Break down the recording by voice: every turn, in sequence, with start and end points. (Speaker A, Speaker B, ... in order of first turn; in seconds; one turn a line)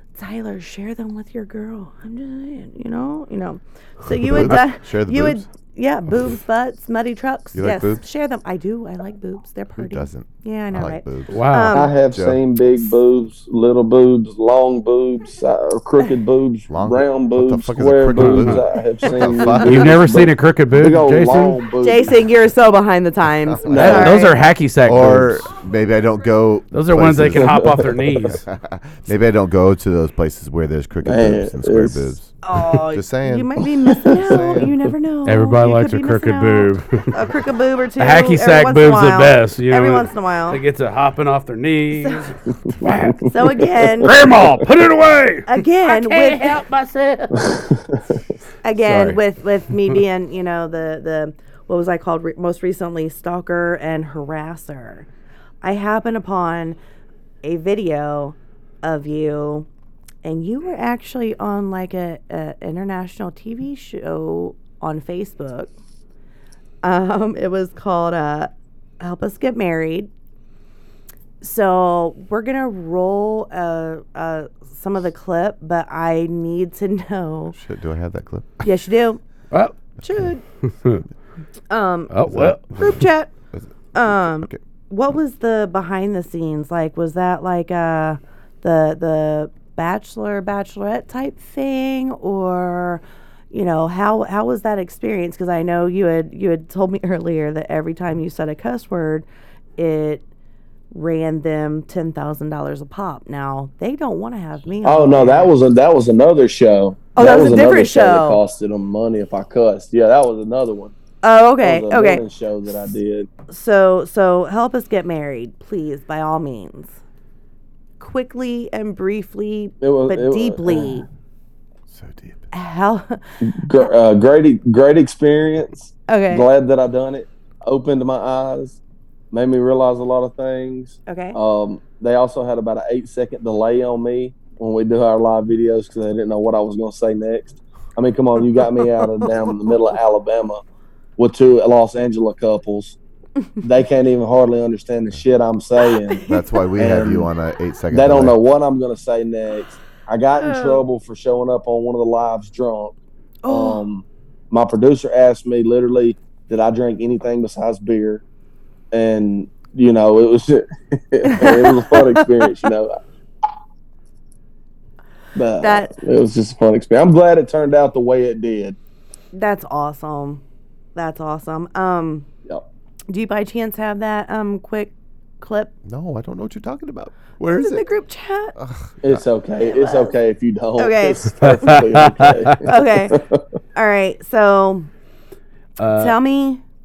Speaker A: 0.1-11.9
Speaker B: 4.1-5.5
Speaker B: 7.5-8.0
Speaker B: 9.8-11.4
Speaker C: 11.3-11.8
Speaker D: 11.7-22.1
Speaker B: 12.1-12.4
Speaker B: 16.7-20.0
Speaker C: 18.1-18.6
Speaker A: 19.2-19.6
Speaker C: 19.6-21.6
Speaker A: 21.8-24.4
Speaker B: 23.5-24.1
Speaker D: 23.6-24.1
Speaker C: 23.7-25.5
Speaker B: 24.8-32.3
Speaker C: 26.7-28.4
Speaker D: 27.4-28.4
Speaker D: 31.0-32.1
Speaker A: 32.4-40.6
Speaker B: 32.9-34.7
Speaker D: 33.9-34.4
Speaker C: 35.2-37.1
Speaker C: 38.0-43.3
Speaker A: 41.9-42.3
Speaker D: 42.8-44.1
Speaker A: 43.2-44.1
Speaker C: 44.0-47.5
Speaker A: 45.5-46.6
Speaker D: 47.4-48.2
Speaker A: 48.6-55.1
Speaker C: 48.8-49.2
Speaker A: 55.6-56.8
Speaker A: 57.4-59.7
Speaker A: 60.2-65.7
Speaker A: 66.8-70.1
Speaker A: 71.4-77.5
Speaker B: 77.5-78.7
Speaker A: 78.6-79.2
Speaker A: 80.0-80.4
Speaker C: 80.6-81.0
Speaker A: 81.7-83.3
Speaker C: 82.1-82.9
Speaker B: 82.3-82.6
Speaker B: 83.5-84.6
Speaker A: 83.9-99.2
Speaker A: 99.8-100.2
Speaker A: 100.9-105.5
Speaker D: 104.8-110.9
Speaker A: 107.2-108.4
Speaker A: 111.2-112.2
Speaker D: 111.6-113.3
Speaker A: 113.5-117.0
Speaker A: 118.0-121.0
Speaker D: 119.8-121.0
Speaker B: 121.9-122.5
Speaker A: 122.5-123.2
Speaker D: 123.4-128.8
Speaker A: 126.1-126.5
Speaker D: 129.3-140.6
Speaker A: 131.1-131.4
Speaker D: 141.2-143.0
Speaker D: 143.6-147.3
Speaker A: 145.8-146.4
Speaker B: 146.2-148.4
Speaker D: 147.9-152.9
Speaker A: 150.3-150.8
Speaker A: 153.4-153.8
Speaker D: 153.5-158.2
Speaker D: 158.9-163.0
Speaker A: 161.2-162.4
Speaker D: 165.3-168.8
Speaker A: 165.6-165.9
Speaker A: 169.3-170.4
Speaker A: 170.9-172.3
Speaker A: 173.1-175.7
Speaker B: 175.8-177.9
Speaker A: 177.5-178.5
Speaker B: 178.5-179.2
Speaker D: 179.0-183.4
Speaker A: 179.6-180.2
Speaker A: 180.8-181.7
Speaker C: 181.4-182.5
Speaker A: 182.6-183.2
Speaker A: 183.7-184.9
Speaker C: 185.8-186.2
Speaker A: 185.9-186.6